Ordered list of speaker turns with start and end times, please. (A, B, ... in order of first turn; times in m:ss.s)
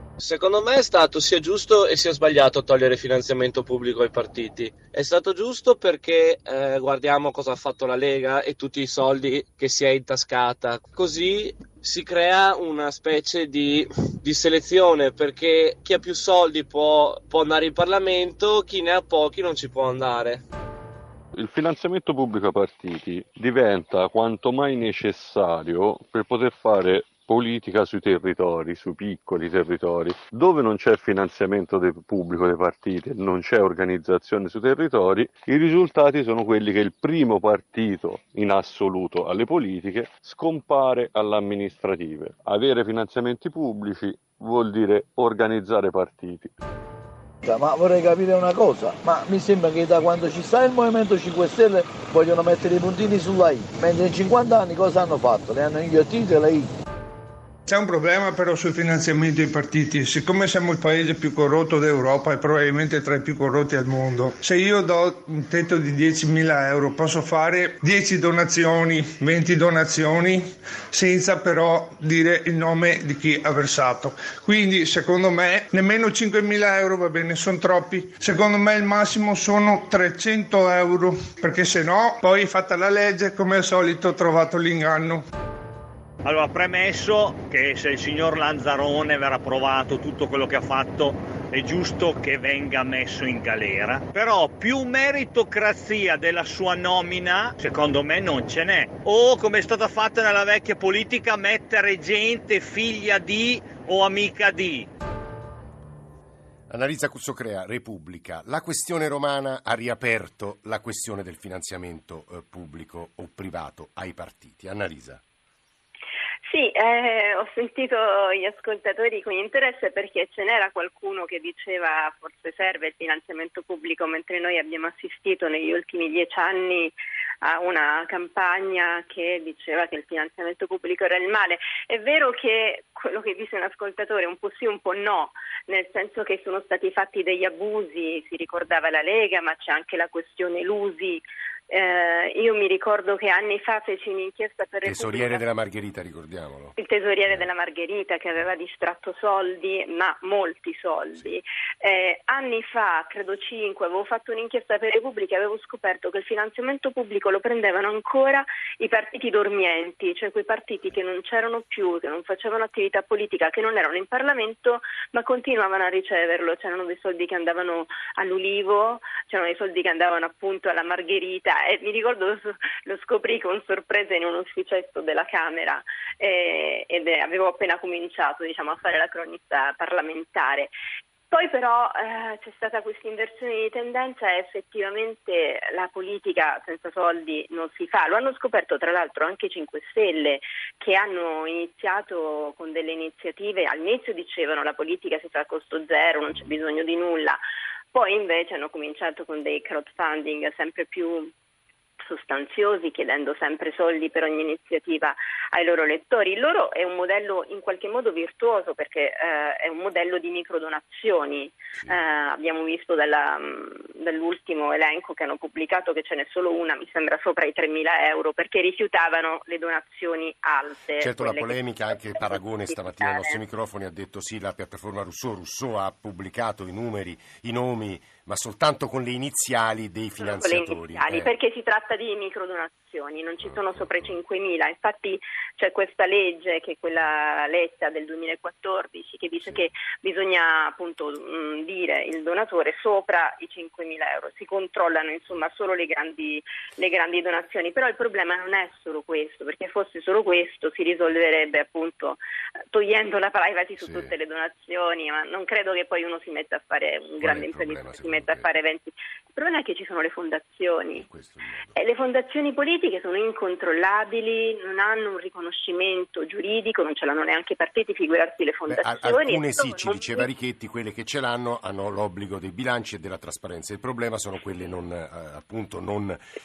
0:00.2-0:20.4 A
0:21.4-0:46.5 B
0:47.4-0:56.7 C
0:57.7-1:25.2 D
1:26.2-1:44.9 E
1:46.7-1:55.2 F
1:56.5-2:25.4 G
2:24.8-2:26.8 F
2:26.8-3:00.7 G
3:01.3-3:17.4 G
3:17.9-3:21.3 G
3:22.0-3:43.4 G
3:41.0-3:51.3 F
3:50.2-4:12.2 G
3:53.4-3:53.9 F
4:12.7-4:21.1 G
4:13.8-4:14.1 F
4:17.2-4:18.5 F
4:21.0-4:21.8 F
4:21.7-4:30.3 G
4:28.7-4:36.2 F